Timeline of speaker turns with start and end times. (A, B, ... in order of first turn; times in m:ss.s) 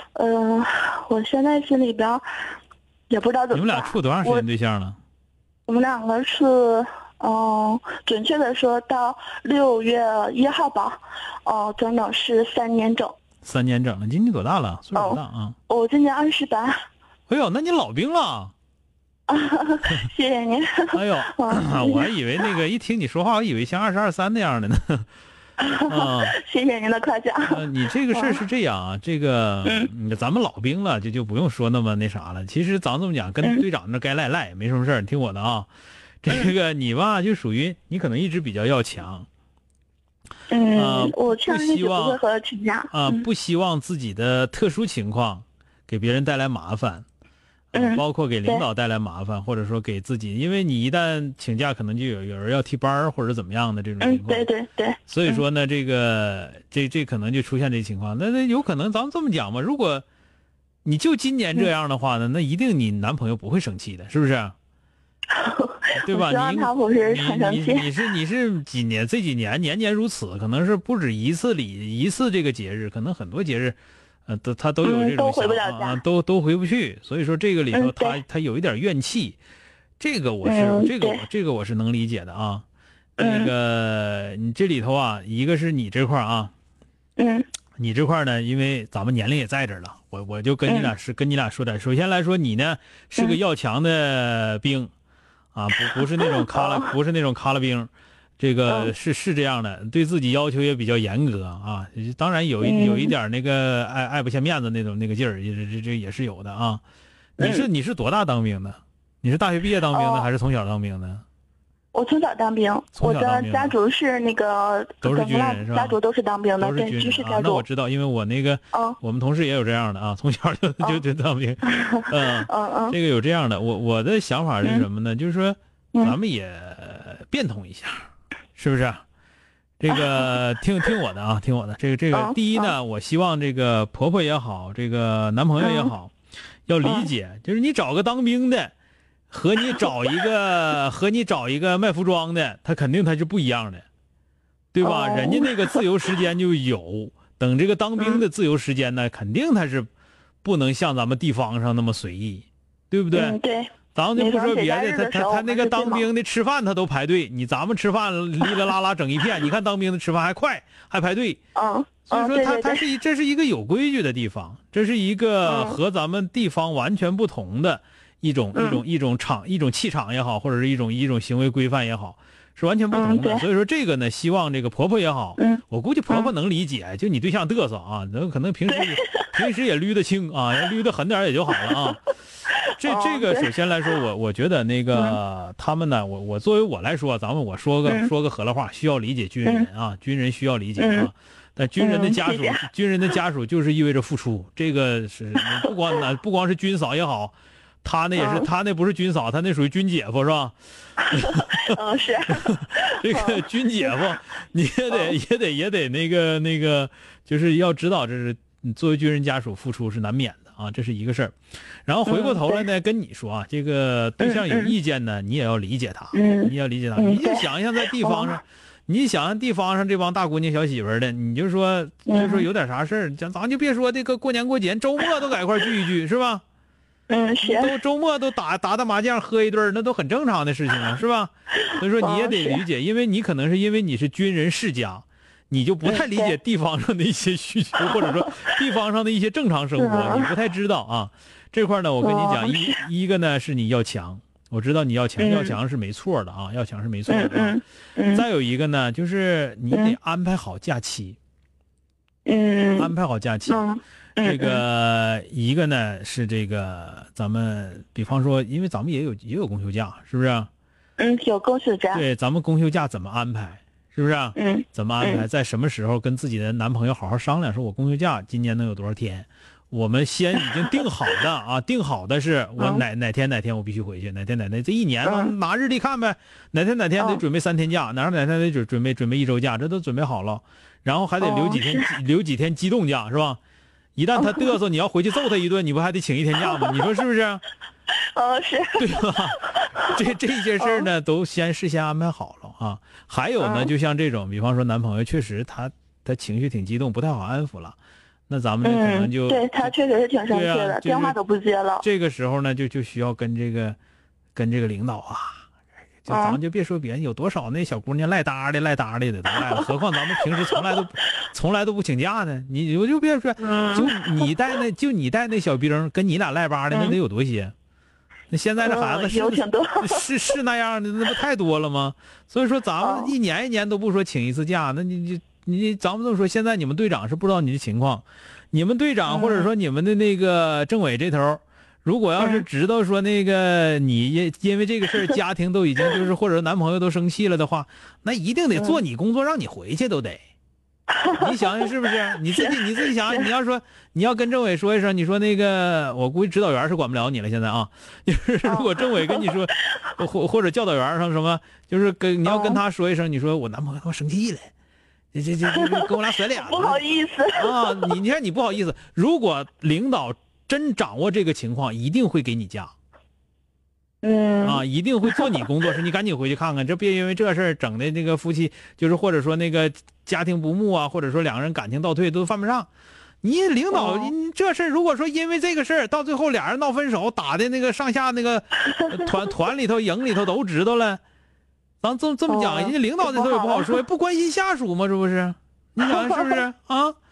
0:00.1-0:02.2 A
0:03.1-0:04.5 A
0:03.5-0:05.0 B
0:05.7-0:13.2 A
0:13.4-0:15.6 B
0:15.0-0:16.8 A
0:17.3-0:18.5 B
0:19.3-0:22.1 A
0:20.9-0:25.1 B
0:25.6-0:27.6 A
0:25.9-0:26.4 B
0:27.4-0:35.7 B
0:28.1-0:28.4 A
0:29.6-0:29.9 A
0:36.2-0:39.3 B
0:40.5-0:43.3 A
0:40.7-0:42.2 B
0:42.9-0:47.0 B
0:47.7-0:54.5 B
0:47.7-0:48.7 A
0:54.0-0:55.4 A
0:55.1-1:00.0 B
1:00.8-1:04.5 B
1:05.3-1:07.9 A
1:06.0-1:19.4 B
1:14.8-1:16.0 A
1:17.7-1:18.2 A
1:20.0-1:22.6 B
1:20.4-1:21.2 A
1:23.2-1:23.5 A
1:23.2-1:26.5 B
1:27.2-1:27.5 A
1:27.8-1:34.9 B
1:30.7-1:30.9 A
1:35.6-1:46.8 B
1:36.0-1:36.9 A
1:38.7-1:38.9 A
1:42.6-1:43.1 A
1:47.4-1:51.2 B
1:47.4-1:47.7 A
1:49.9-1:50.3 A
1:51.9-1:57.7 A
1:53.0-1:53.7 B
1:55.0-1:56.0 B
1:56.6-2:09.0 B
1:58.7-1:59.0 A
2:01.7-2:03.0 A
2:04.6-2:04.9 A
2:09.8-2:16.1 B
2:09.9-2:10.4 A
2:12.1-2:12.8 A
2:15.6-2:15.9 A
2:16.7-2:18.7 B
2:16.8-2:17.1 A
2:19.3-2:23.8 B
2:24.7-2:29.9 B
2:24.8-2:25.8 A
2:28.0-2:28.2 A
2:30.4-2:33.4 B
2:33.1-2:36.1 A
2:34.0-2:41.4 B
2:41.6-2:42.8 A
2:42.1-3:02.0 B
2:45.4-2:45.8 A
2:48.6-2:48.8 A
2:52.9-2:53.4 A
2:55.4-2:56.3 A
2:58.7-2:59.3 A
3:02.8-3:20.6 B
3:02.8-3:03.5 A
3:07.9-3:08.1 A
3:10.8-3:11.1 A
3:11.8-3:12.6 A
3:18.2-3:18.5 A
3:21.0-3:23.9 A
3:21.1-3:21.8 B
3:22.3-3:46.4 B
3:32.1-3:32.7 A
3:34.2-3:34.7 A
3:36.1-3:37.5 A
3:38.0-3:38.4 A
3:42.1-3:42.5 A
3:47.1-3:47.8 A
3:47.4-4:11.2 B
3:51.6-3:52.6 A
3:55.8-3:56.4 A
3:57.9-3:58.5 A
3:59.8-4:00.3 A
4:02.0-4:02.8 A
4:05.2-4:05.6 A
4:07.1-4:08.2 A
4:12.3-4:12.9 A
4:12.8-4:13.7 B
4:13.5-4:14.6 A
4:14.2-4:20.5 B
4:21.0-4:22.0 A
4:21.9-4:43.4 B
4:24.4-4:25.3 A
4:32.6-4:32.8 A
4:35.0-4:35.3 A
4:37.0-4:37.2 A
4:41.2-4:41.9 A
4:44.0-4:47.4 B
4:44.2-4:44.5 A
4:46.4-4:46.8 A
4:48.1-4:49.9 A
4:48.8-4:57.8 B
4:50.6-4:50.9 A
4:53.4-4:53.7 A
4:58.3-4:59.7 B
4:58.6-5:01.8 A
5:00.3-5:01.2 B
5:01.8-5:03.8 B
5:04.4-5:05.4 B
5:06.0-5:17.5 B
5:06.1-5:06.4 A
5:09.3-5:09.7 A
5:10.2-5:10.6 A
5:13.4-5:14.3 A
5:16.7-5:17.0 A
5:18.3-5:40.2 B
5:18.6-5:20.1 A
5:22.8-5:23.1 A
5:29.1-5:29.5 A
5:32.2-5:32.4 A
5:40.9-5:41.6 A
5:41.2-5:54.5 B
5:42.3-5:43.3 A
5:48.5-5:49.3 A
5:52.2-5:52.6 A
5:55.1-5:56.8 B
5:55.5-5:58.0 A
5:57.4-6:02.7 B
6:04.0-6:05.3 A
6:04.4-6:12.7 B
6:13.2-6:21.0 B
6:13.7-6:14.1 A
6:18.7-6:19.1 A
6:21.8-6:27.0 B
6:22.3-6:23.8 A
6:25.8-6:26.4 A